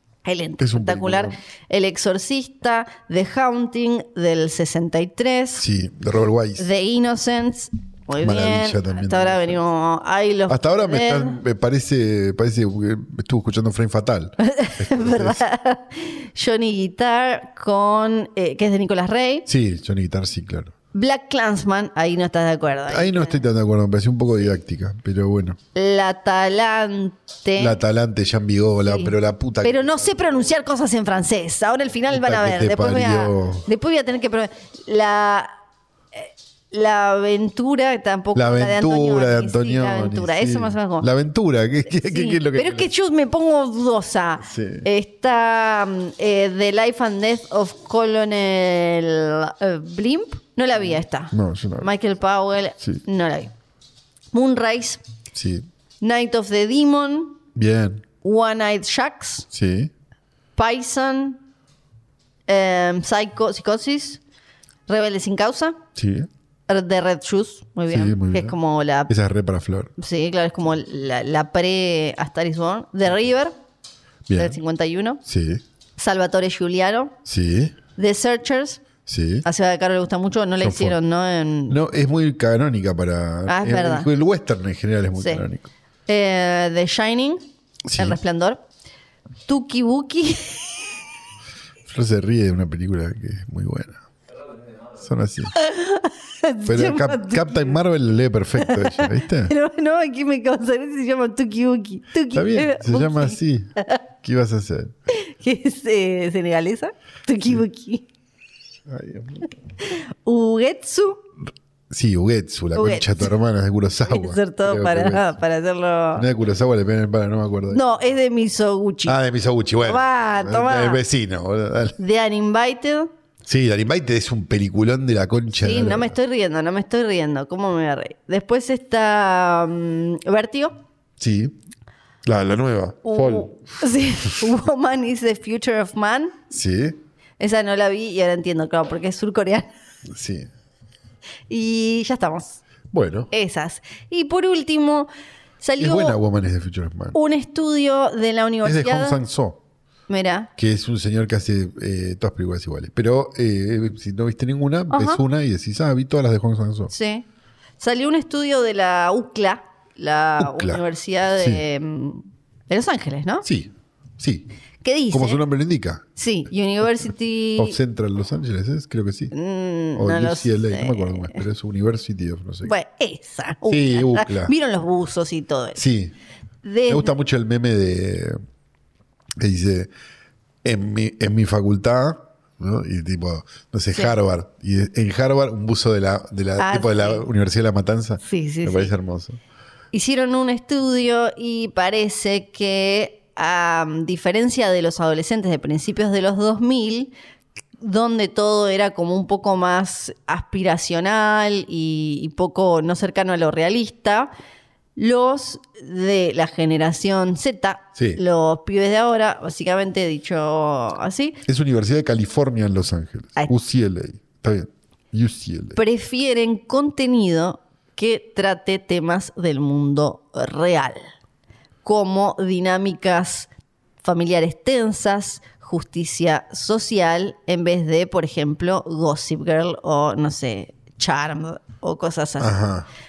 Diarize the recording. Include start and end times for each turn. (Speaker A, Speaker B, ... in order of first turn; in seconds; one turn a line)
Speaker A: 0.2-5.7
Speaker B: 0.6-1.3
Speaker B: 5.6-6.7
Speaker A: 6.6-11.4
Speaker B: 8.2-9.6
Speaker B: 10.5-15.4
Speaker A: 14.4-19.5
Speaker B: 19.5-20.7
Speaker A: 20.9-23.4
Speaker B: 22.9-25.6
Speaker A: 25.7-27.8
Speaker B: 27.6-30.0
Speaker A: 28.8-35.5
Speaker B: 32.1-33.7
Speaker A: 36.1-41.1
Speaker B: 38.3-42.9
Speaker A: 41.9-53.5
Speaker B: 44.4-44.9
Speaker B: 51.3-51.9
Speaker A: 54.3-55.0
Speaker B: 55.3-55.6
Speaker A: 56.0-57.4
Speaker B: 57.5-58.0
Speaker A: 58.2-59.5
Speaker B: 59.5-59.9
Speaker A: 60.5-61.4
Speaker A: 62.5-64.2
Speaker A: 64.9-65.8
Speaker B: 66.0-66.3
Speaker A: 66.7-69.1
Speaker B: 67.9-68.5
Speaker B: 69.1-69.9
Speaker A: 70.0-73.5
Speaker B: 74.3-74.6
Speaker A: 74.3-75.2
Speaker B: 75.2-75.6
Speaker A: 76.0-77.1
Speaker B: 77.2-77.7
Speaker A: 78.0-78.8
Speaker B: 79.0-79.4
Speaker A: 79.4-81.8
Speaker B: 80.6-81.0
Speaker B: 81.7-85.7
Speaker A: 83.5-84.1
Speaker A: 85.2-85.4
Speaker A: 86.1-87.4
Speaker B: 87.8-88.2
Speaker A: 87.9-88.6
Speaker A: 89.5-90.8
Speaker B: 91.8-94.0
Speaker B: 95.0-95.5
Speaker A: 95.5-97.8
Speaker B: 96.7-99.5
Speaker A: 98.6-104.0
Speaker B: 102.3-104.9
Speaker A: 105.1-108.0
Speaker B: 108.9-109.5
Speaker A: 109.8-111.2
Speaker B: 111.9-115.3
Speaker A: 112.7-113.3
Speaker A: 114.0-116.2
Speaker B: 116.2-117.8
Speaker A: 117.7-119.2
Speaker B: 119.0-122.0
Speaker A: 119.8-121.0
Speaker A: 122.0-123.1
Speaker B: 123.4-126.1
Speaker A: 125.5-130.7
Speaker B: 131.2-131.5
Speaker B: 132.2-133.5
Speaker A: 133.0-136.4
Speaker B: 136.5-137.0
Speaker A: 137.4-139.7
Speaker B: 140.1-140.5
Speaker A: 141.5-142.6
Speaker B: 142.9-143.3
Speaker A: 143.3-145.1
Speaker A: 145.6-146.2
Speaker B: 145.8-147.2
Speaker A: 147.1-149.2
Speaker B: 148.6-149.6
Speaker A: 150.1-150.5
Speaker B: 150.6-156.9
Speaker A: 154.9-155.2
Speaker A: 156.9-157.2
Speaker A: 157.8-163.4
Speaker B: 160.4-160.8
Speaker B: 161.4-161.6
Speaker B: 163.4-164.5
Speaker A: 164.8-165.4
Speaker B: 165.1-166.0
Speaker A: 166.2-167.8
Speaker B: 167.6-169.3
Speaker A: 169.3-171.4
Speaker B: 169.9-172.7
Speaker A: 172.6-175.8
Speaker B: 173.7-174.5
Speaker B: 175.8-176.1
Speaker A: 176.6-177.1
Speaker B: 176.9-178.4
Speaker B: 179.4-179.9
Speaker B: 180.6-189.4
Speaker A: 186.6-187.2
Speaker A: 188.2-188.9
Speaker A: 189.9-197.1
Speaker A: 197.8-204.3
Speaker A: 204.9-211.4
Speaker B: 211.4-215.8
Speaker A: 215.8-221.1
Speaker A: 221.8-223.5
Speaker A: 224.0-232.5
Speaker B: 232.4-232.9